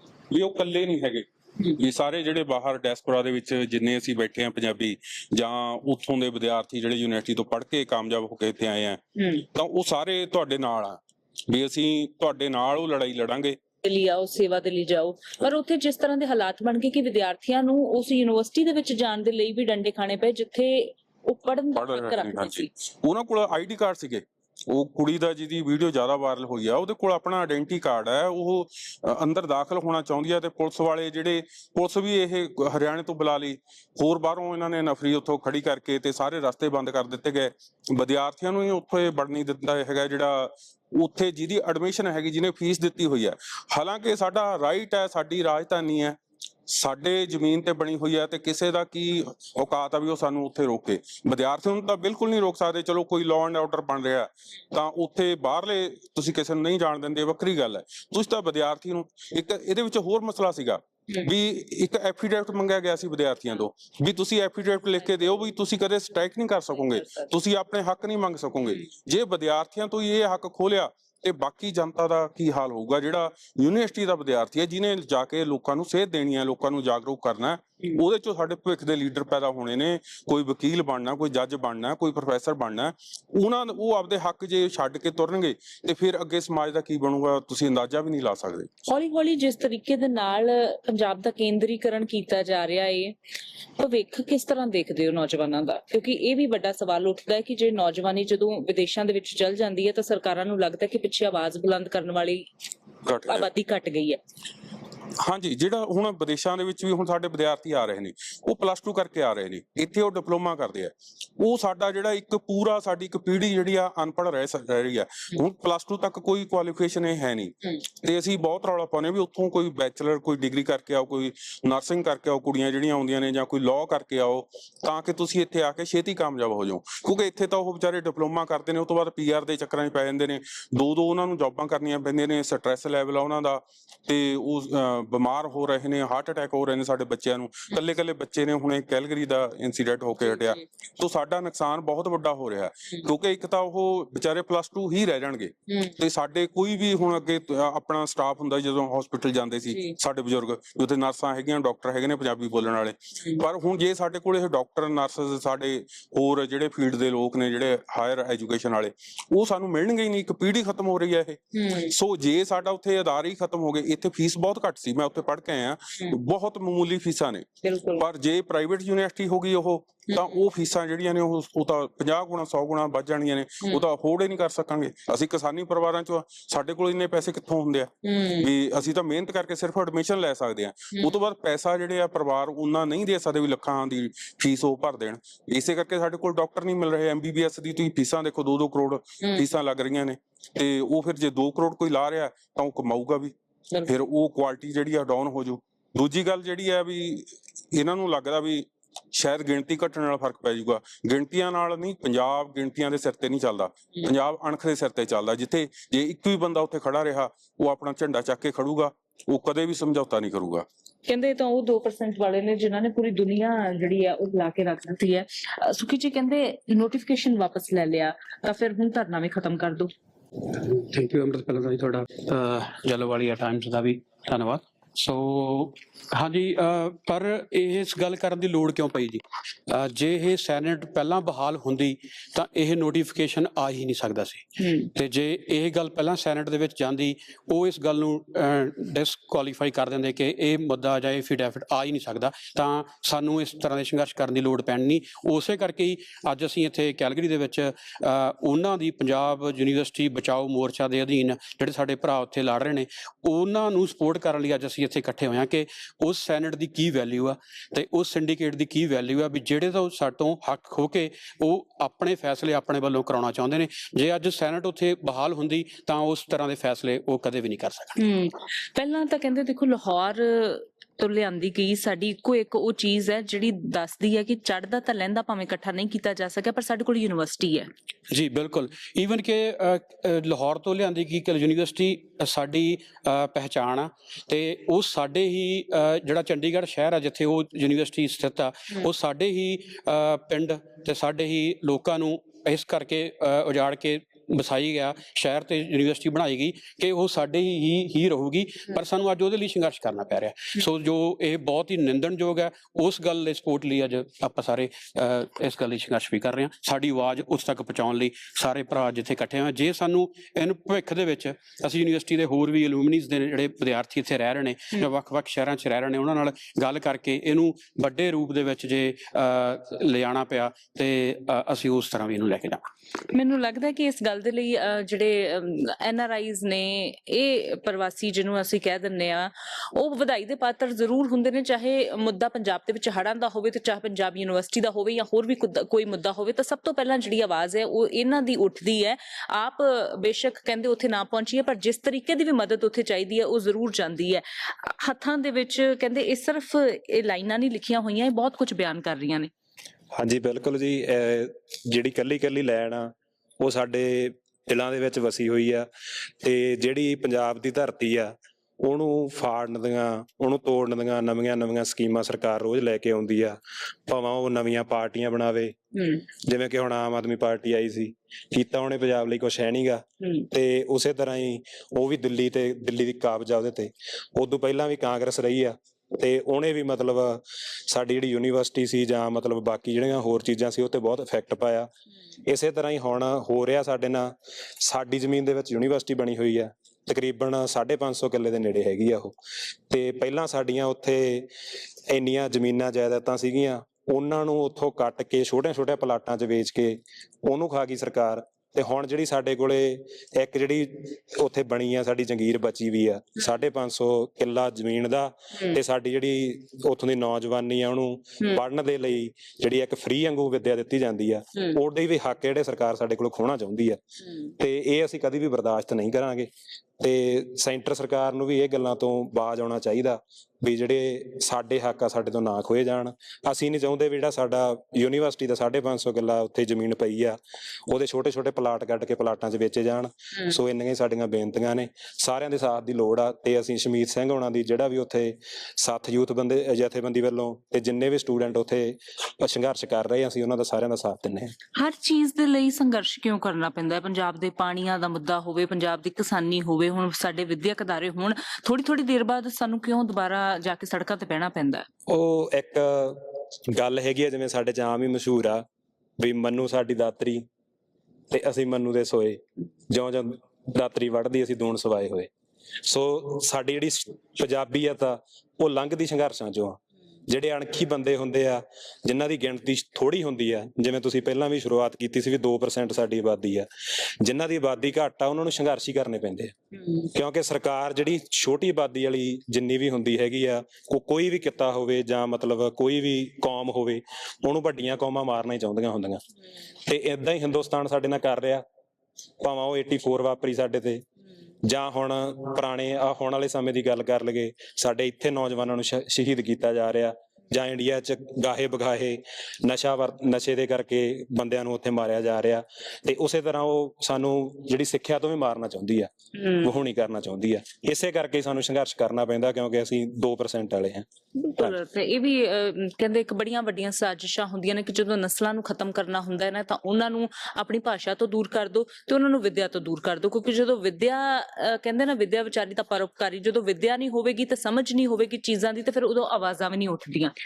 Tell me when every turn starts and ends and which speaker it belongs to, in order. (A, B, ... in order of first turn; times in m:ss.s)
0:00.3-0:13.6 A
0:09.2-0:09.4 B
0:13.8-0:22.7 B
0:21.8-1:28.7 A
1:06.9-1:07.3 B
1:28.9-1:33.1 B
1:33.8-1:42.5 B
1:43.0-1:43.5 A
1:43.3-1:44.2 B
1:45.2-3:13.3 A
2:20.3-2:20.6 B
2:25.7-2:25.9 B
2:29.7-2:30.0 B
2:41.5-2:41.9 B
2:47.6-2:48.0 B
2:50.1-2:50.4 B
2:58.0-2:58.5 B
3:13.8-3:30.6 A
3:31.1-3:39.9 B
3:40.5-4:28.0 C
3:54.6-3:54.9 B
4:28.0-4:37.7 B
4:38.1-5:22.6 C
5:23.1-5:49.3 B
5:49.9-5:55.7 D
5:56.2-6:05.6 D
6:05.8-6:06.0 B
6:06.2-6:21.7 D
6:22.2-6:29.1 D
6:29.7-6:31.3 D
6:31.9-6:53.8 D
6:54.4-7:21.3 D
7:21.6-7:31.7 B
7:31.9-7:35.4 D
7:36.0-7:37.2 D
7:38.1-7:42.1 D
7:42.6-7:56.3 D
7:56.9-8:06.0 D
8:06.6-8:08.4 D
8:09.2-8:10.8 D
8:11.4-8:30.9 D
8:26.2-8:26.5 B
8:31.2-8:47.1 B